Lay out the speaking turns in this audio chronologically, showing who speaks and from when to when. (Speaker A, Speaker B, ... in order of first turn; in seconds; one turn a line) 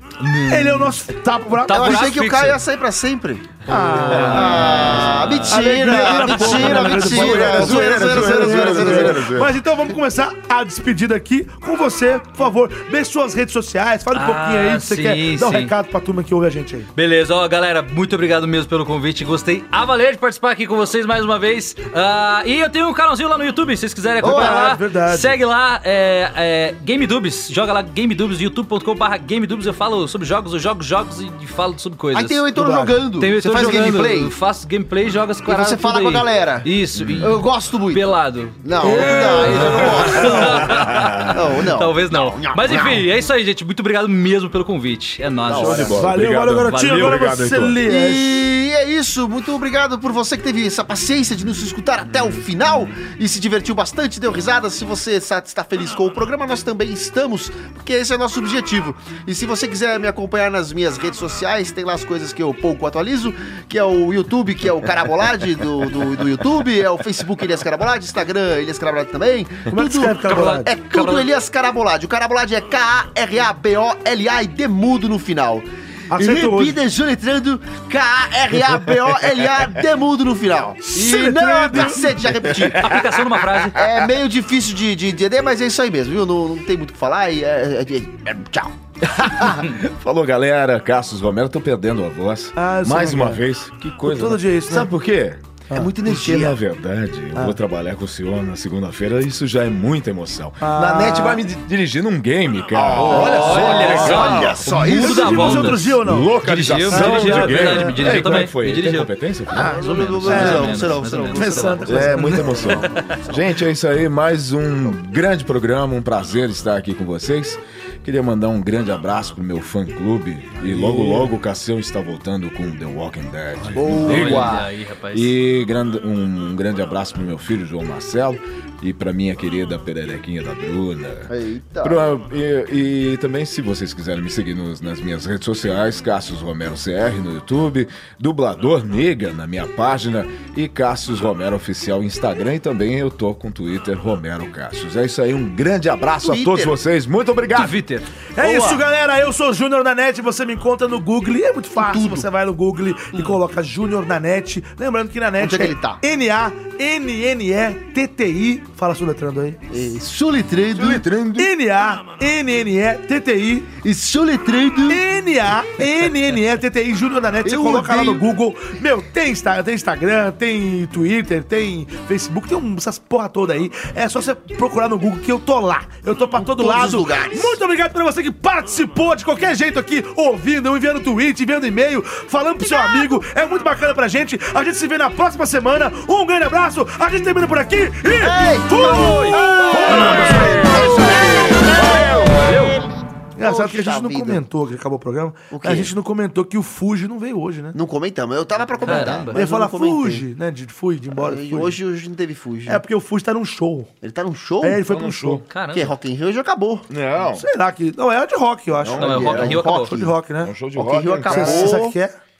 Speaker A: 0.2-1.0
Speaker B: 0.5-2.2
Speaker A: 1.6-2.6
Speaker C: 1.7-3.6
Speaker B: 3.7-16.9
Speaker A: 3.7-7.4
Speaker D: 4.1-4.4
Speaker C: 4.2-9.3
Speaker D: 6.9-9.6
Speaker A: 14.1-15.7
Speaker A: 16.9-32.5
Speaker C: 24.2-24.8
Speaker B: 24.2-25.4
Speaker C: 32.1-34.3
Speaker B: 32.5-33.0
Speaker A: 33.2-47.2
Speaker C: 35.5-36.7
Speaker D: 36.9-37.4
Speaker C: 37.2-38.0
Speaker C: 38.6-40.7
Speaker B: 38.8-40.6
Speaker D: 40.5-41.4
Speaker C: 41.3-43.0
Speaker D: 45.5-47.8
Speaker C: 45.5-45.8
Speaker B: 45.9-48.5
Speaker C: 47.8-83.0
Speaker B: 69.7-70.7
Speaker A: 70.2-71.2
Speaker B: 76.1-76.8
Speaker B: 80.8-82.1
Speaker A: 82.8-83.8
Speaker C: 83.7-88.7
Speaker D: 89.0-95.4
Speaker B: 92.5-93.4
Speaker B: 94.0-94.9
Speaker B: 95.7-96.0
Speaker C: 95.7-96.6
Speaker D: 96.0-104.7
Speaker B: 100.6-101.4
Speaker C: 102.7-105.8
Speaker A: 102.9-113.0
Speaker B: 104.7-106.3
Speaker D: 106.0-109.7
Speaker B: 106.9-108.5
Speaker C: 109.5-113.5
Speaker B: 110.2-112.9
Speaker D: 111.8-131.3
Speaker B: 120.7-121.1
Speaker C: 123.7-124.7
Speaker A: 124.0-125.3
Speaker C: 131.3-132.1
Speaker D: 131.8-147.8
Speaker C: 146.2-146.8
Speaker A: 147.5-148.1
Speaker B: 148.3-159.6
Speaker C: 148.4-148.8
Speaker C: 151.8-152.2
Speaker C: 155.4-156.0
Speaker C: 159.7-161.1
Speaker D: 160.7-161.5
Speaker B: 161.4-163.7
Speaker C: 163.8-165.0
Speaker B: 164.9-191.7
Speaker C: 167.4-168.2
Speaker C: 176.3-177.6
Speaker C: 188.1-192.1
Speaker D: 188.8-192.8
Speaker B: 193.4-197.7
Speaker C: 193.4-194.4
Speaker C: 195.5-195.9
Speaker C: 197.7-200.2
Speaker A: 198.8-199.4
Speaker B: 199.3-201.8
Speaker C: 201.1-202.8
Speaker B: 202.7-203.9
Speaker C: 204.0-204.8
Speaker B: 204.6-205.4
Speaker D: 204.8-205.4
Speaker A: 205.5-205.9
Speaker C: 205.6-206.9
Speaker D: 206.9-207.4
Speaker B: 207.3-210.6
Speaker D: 208.8-209.6
Speaker C: 209.0-210.2
Speaker A: 209.0-210.1
Speaker D: 210.4-211.8
Speaker C: 210.7-212.0
Speaker B: 211.2-212.1